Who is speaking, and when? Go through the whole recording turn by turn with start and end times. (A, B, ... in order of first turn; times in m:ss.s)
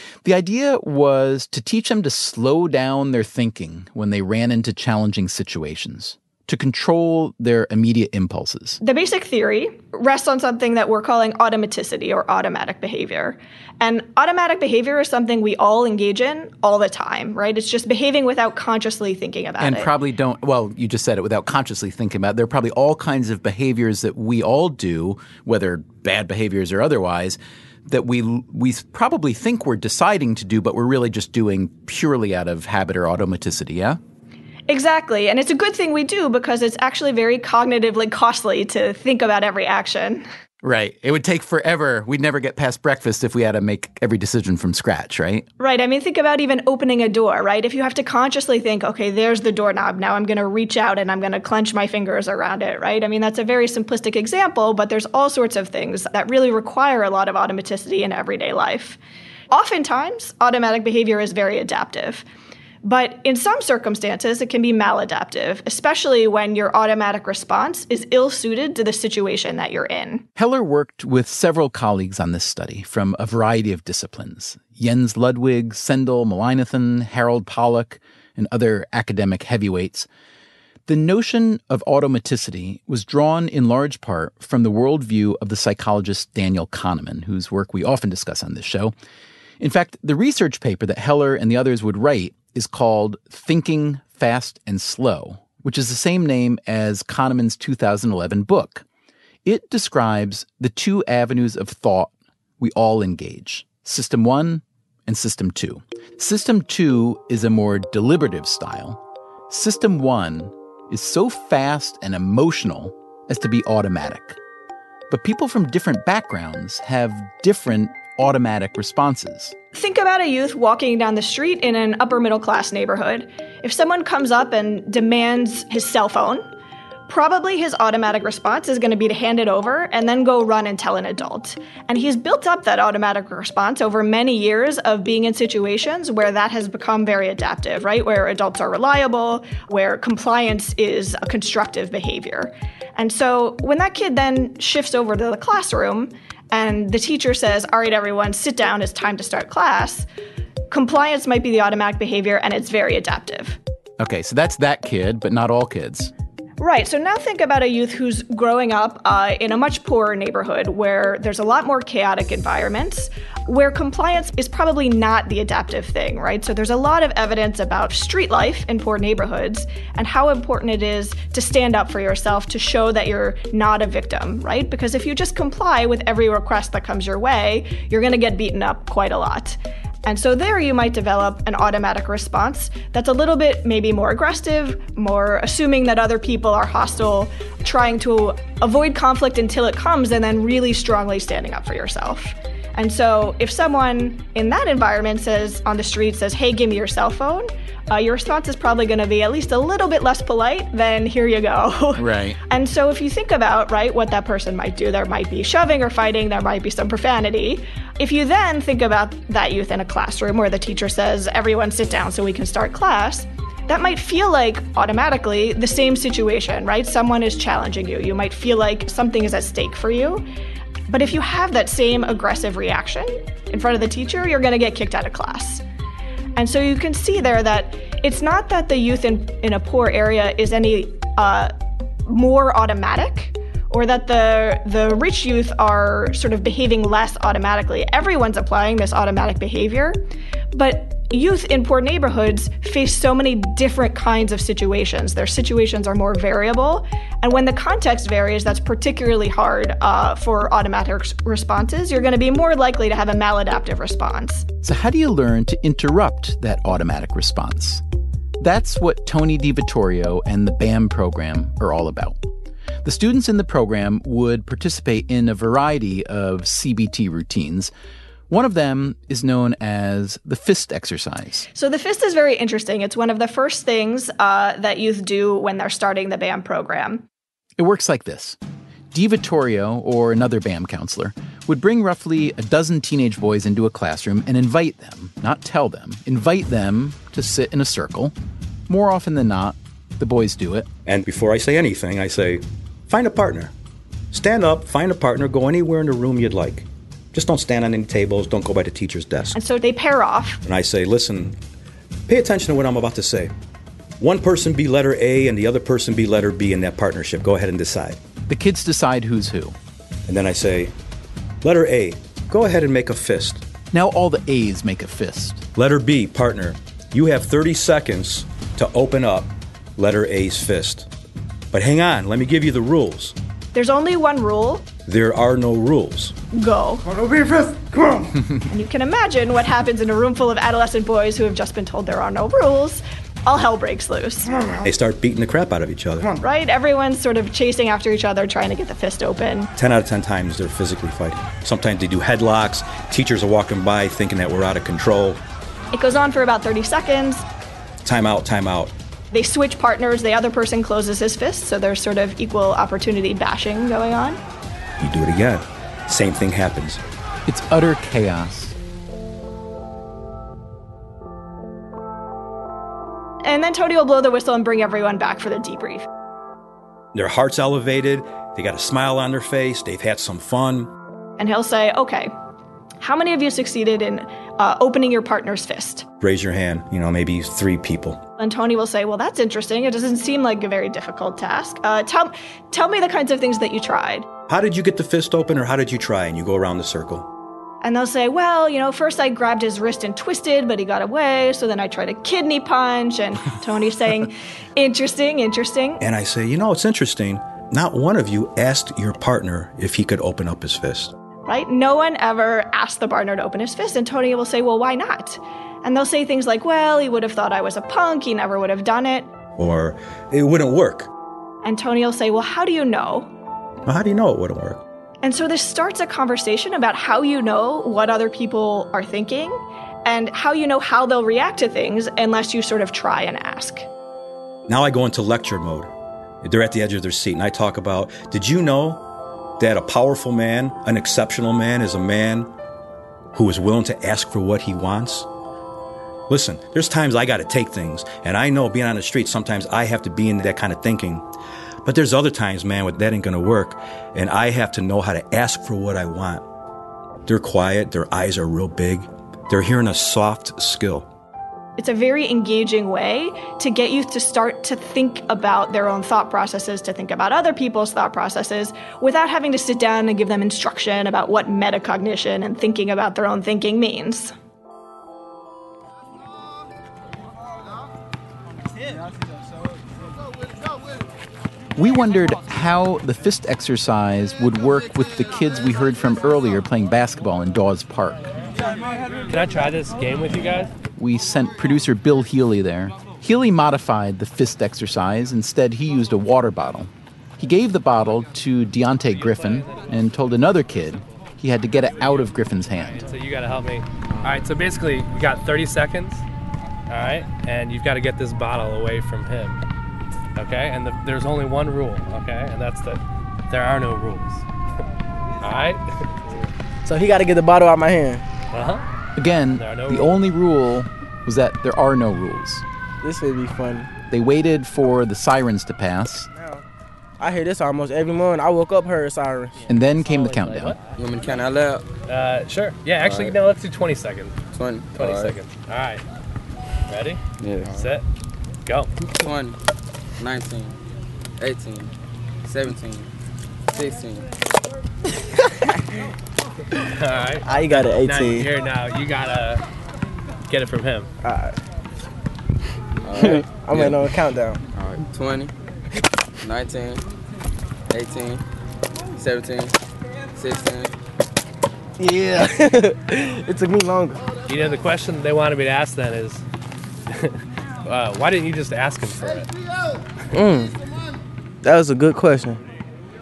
0:00.2-0:08.8 A
0:08.8-0:19.9 B
0:19.6-0:34.0 A
0:34.7-0:40.3 B
0:40.6-0:45.5 A
0:45.6-0:59.0 B
0:59.5-1:02.2 B
1:02.8-1:10.3 B
1:10.4-1:20.1 A
1:20.9-1:28.9 A
1:29.6-1:38.8 A
1:39.4-1:54.4 A
1:55.1-1:59.5 A
1:59.7-2:06.5 B
2:07.1-2:30.1 B
2:30.7-2:33.6 B
2:34.0-2:36.1 A
2:36.6-3:40.3 B
3:22.0-3:22.4 A
3:40.9-3:45.6 B
3:46.4-3:51.5 B
3:52.1-4:00.0 B
4:00.5-4:14.5 B
4:14.6-4:17.8 A
4:18.4-4:22.2 A
4:22.8-4:27.7 A
4:28.3-4:31.5 A
4:31.6-4:37.0 B
4:37.6-4:38.4 A
4:38.9-4:48.1 A
4:48.7-4:50.7 A
4:50.9-4:53.5 C
4:54.1-4:59.4 C
4:59.4-5:00.4 B
5:00.4-5:01.4 C
5:02.1-5:03.3 C
5:04.0-5:08.0 C
5:08.3-5:09.6 A
5:10.1-5:10.7 C
5:11.4-5:13.5 C
5:13.7-5:15.5 A
5:15.6-5:20.9 C
5:21.5-5:23.2 C
5:23.5-5:24.7 B
5:24.9-5:26.2 C
5:26.3-5:26.9 B
5:28.5-5:34.5 B
5:34.6-5:36.2 C
5:36.2-5:39.5 B
5:39.6-5:45.2 C
5:45.7-5:47.2 B
5:47.8-5:48.7 C
5:49.1-5:54.2 B
5:54.8-5:56.8 C
5:57.3-5:58.6 A
6:03.2-6:05.9 B
6:06.9-6:10.7 C
6:11.2-6:12.1 B
6:12.8-6:15.8 B
6:16.0-6:18.0 C
6:18.2-6:24.1 B
6:24.3-6:27.1 C
6:27.6-6:35.8 B
6:35.8-6:41.0 C
6:41.3-6:49.1 B
6:49.4-6:50.9 C
6:51.4-6:53.1 B
6:53.7-6:54.6 C
6:55.0-7:03.7 B
7:04.5-7:05.7 C
7:06.2-7:08.8 C
7:09.4-7:12.3 C
7:13.1-7:15.1 C
7:16.1-7:21.1 C
7:21.6-7:26.2 C
7:27.1-7:30.9 C
7:31.6-7:44.1 B
7:51.6-7:58.0 A
7:59.1-8:00.5 D
8:00.8-8:12.8 A
8:09.1-8:09.5 D
8:12.8-8:16.0 D
8:16.7-8:19.4 D
8:20.2-8:24.2 D
8:25.2-8:26.1 D
8:26.6-8:28.1 E
8:28.3-8:28.6 D
8:29.0-8:32.4 A
8:29.4-8:30.0 D
8:32.8-8:33.7 E
8:33.9-8:36.1 A
8:36.2-8:36.4 E
8:37.0-8:39.5 E
8:39.5-8:40.6 A
8:39.8-8:40.6 D
8:40.7-8:41.7 F
8:41.9-8:44.2 D
8:42.8-8:43.2 F
8:44.3-8:45.2 F
8:44.7-8:45.8 D
8:46.7-8:47.8 D
8:47.2-8:47.7 F
8:48.9-8:49.4 F
8:50.0-8:50.6 F
8:51.2-8:51.7 F
8:52.2-8:52.9 F
8:53.5-8:54.1 F
8:56.7-8:59.4 D
8:57.3-8:58.3 E
9:00.3-9:00.9 D
9:01.0-9:01.4 E
9:02.8-9:03.8 F
9:03.0-9:04.4 E
9:04.5-9:05.3 F
9:06.2-9:06.8 F
9:07.7-9:08.2 F
9:09.0-9:09.5 F
9:10.2-9:10.7 F
9:11.8-9:14.1 E
9:14.3-9:16.2 D
9:16.9-9:19.3 D
9:20.1-9:20.6 E
9:21.4-9:22.4 E